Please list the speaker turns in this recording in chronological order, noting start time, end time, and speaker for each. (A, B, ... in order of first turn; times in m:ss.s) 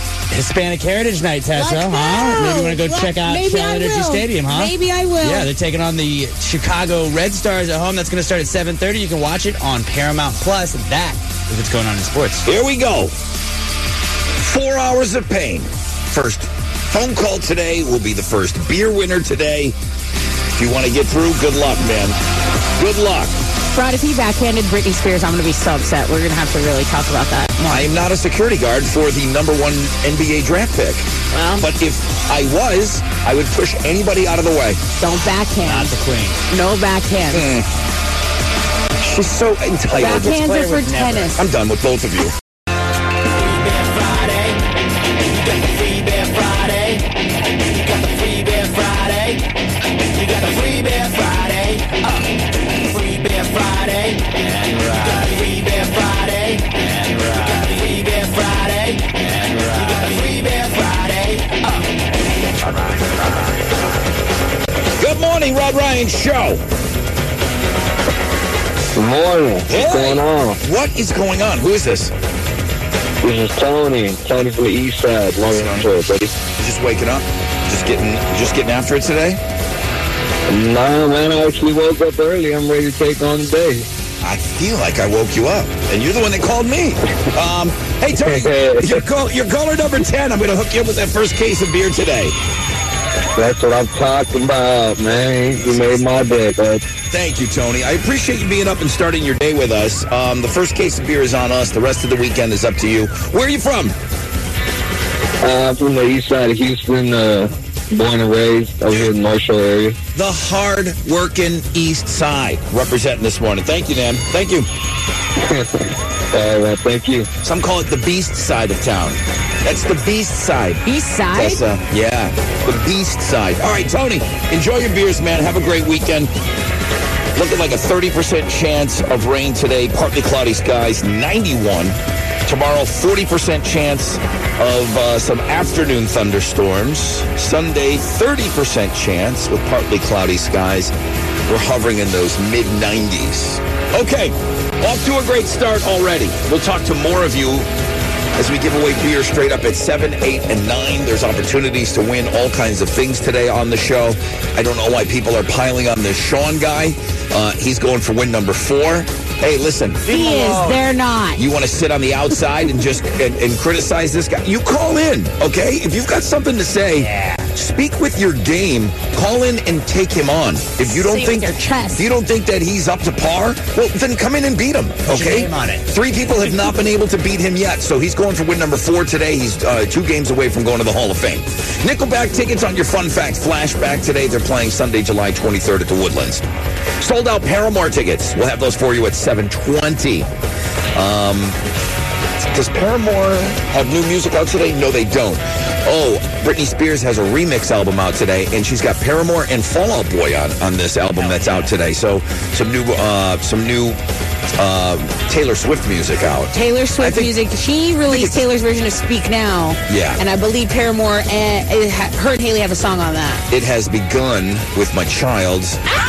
0:00.3-0:12.5 A
0:01.6-0:05.4 B
0:12.4-0:13.1 C
0:14.4-0:19.8 C
0:20.5-0:22.2 C
0:22.8-0:23.4 C
0:23.7-0:27.8 B
0:27.7-0:31.1 C
0:31.3-0:31.6 A
0:31.6-0:34.8 C
0:35.0-0:35.9 B
0:35.6-0:36.4 A
0:36.5-0:37.4 B
0:37.3-0:37.7 C
0:39.0-0:40.4 C
0:39.9-0:41.4 B
0:39.9-0:41.4 A
0:41.3-0:42.3 C
0:43.4-0:49.4 D
0:50.1-0:52.2 D
0:52.8-0:57.1 D
0:54.5-0:55.2 A
0:57.1-0:57.7 A
0:57.7-1:01.9 D
0:59.3-1:00.0 A
1:05.0-1:06.6 C
1:09.0-1:10.6 E
1:09.7-1:12.1 C
1:13.2-1:16.3 E
1:15.5-1:15.9 C
1:16.5-1:19.4 C
1:20.5-1:23.8 E
1:24.2-1:32.4 C
1:28.2-1:29.0 E
1:33.4-1:36.8 E
1:37.1-1:44.0 C
1:45.4-1:50.0 E
1:50.1-1:54.7 C
1:55.4-1:55.8 E
1:56.3-1:57.3 E
1:57.4-2:06.3 C
2:00.8-2:01.6 B
2:07.4-2:20.9 C
2:21.5-2:27.7 C
2:28.4-2:40.2 C
2:40.1-2:41.4 B
2:40.1-2:40.8 A
2:41.4-3:06.4 C
2:47.0-2:47.5 A
2:50.9-2:52.0 B
2:55.1-2:55.8 A
3:07.0-3:10.3 C
3:10.9-3:11.6 C
3:12.5-3:24.0 C
3:21.2-3:21.7 A
3:24.5-3:27.3 C
3:26.5-3:33.4 B
3:28.1-3:28.4 C
3:29.9-3:30.2 C
3:33.5-3:35.8 C